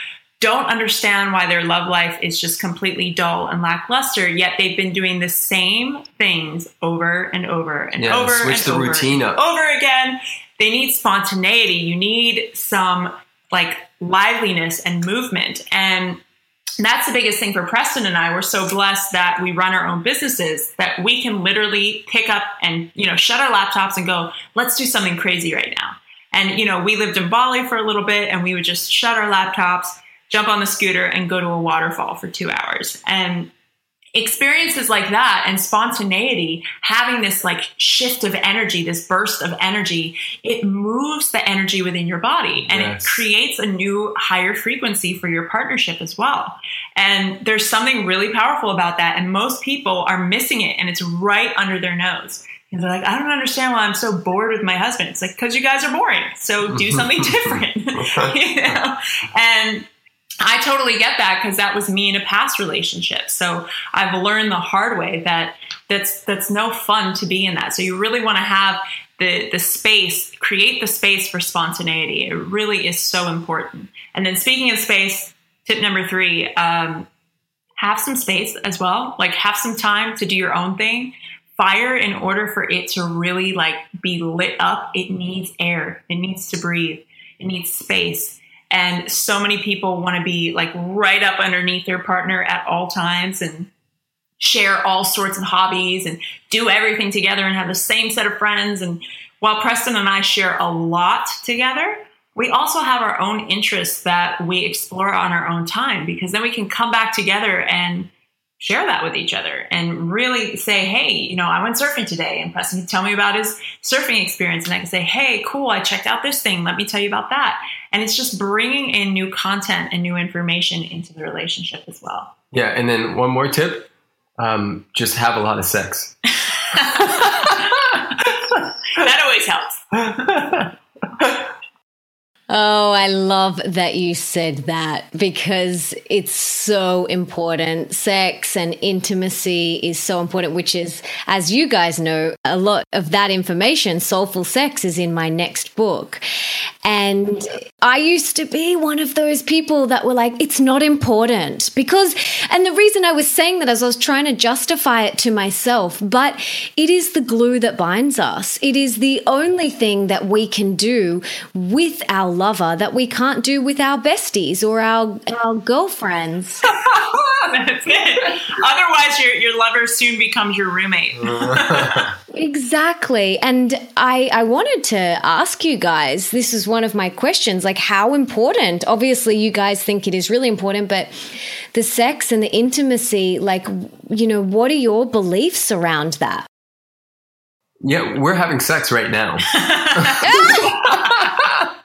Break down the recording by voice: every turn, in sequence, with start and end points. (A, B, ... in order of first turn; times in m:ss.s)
0:00.4-0:16.2 A
0:08.0-0:09.4 B
0:16.8-0:33.5 A
0:34.2-0:59.9 A
0:42.6-0:43.2 B
0:56.7-0:58.3 B
1:00.4-1:17.1 A
1:17.8-1:33.7 A
1:34.4-1:48.1 A
1:48.6-2:02.3 A
2:02.5-2:06.2 B
2:06.7-2:07.6 A
2:07.2-2:08.0 B
2:08.9-2:09.9 A
2:10.1-2:11.4 B
2:12.5-2:26.2 C
2:26.8-2:46.6 C
2:47.4-2:52.0 A
2:51.2-2:52.1 B
2:52.3-3:06.5 C
3:07.8-3:11.7 B
3:09.5-3:11.3 A
3:10.2-3:10.7 C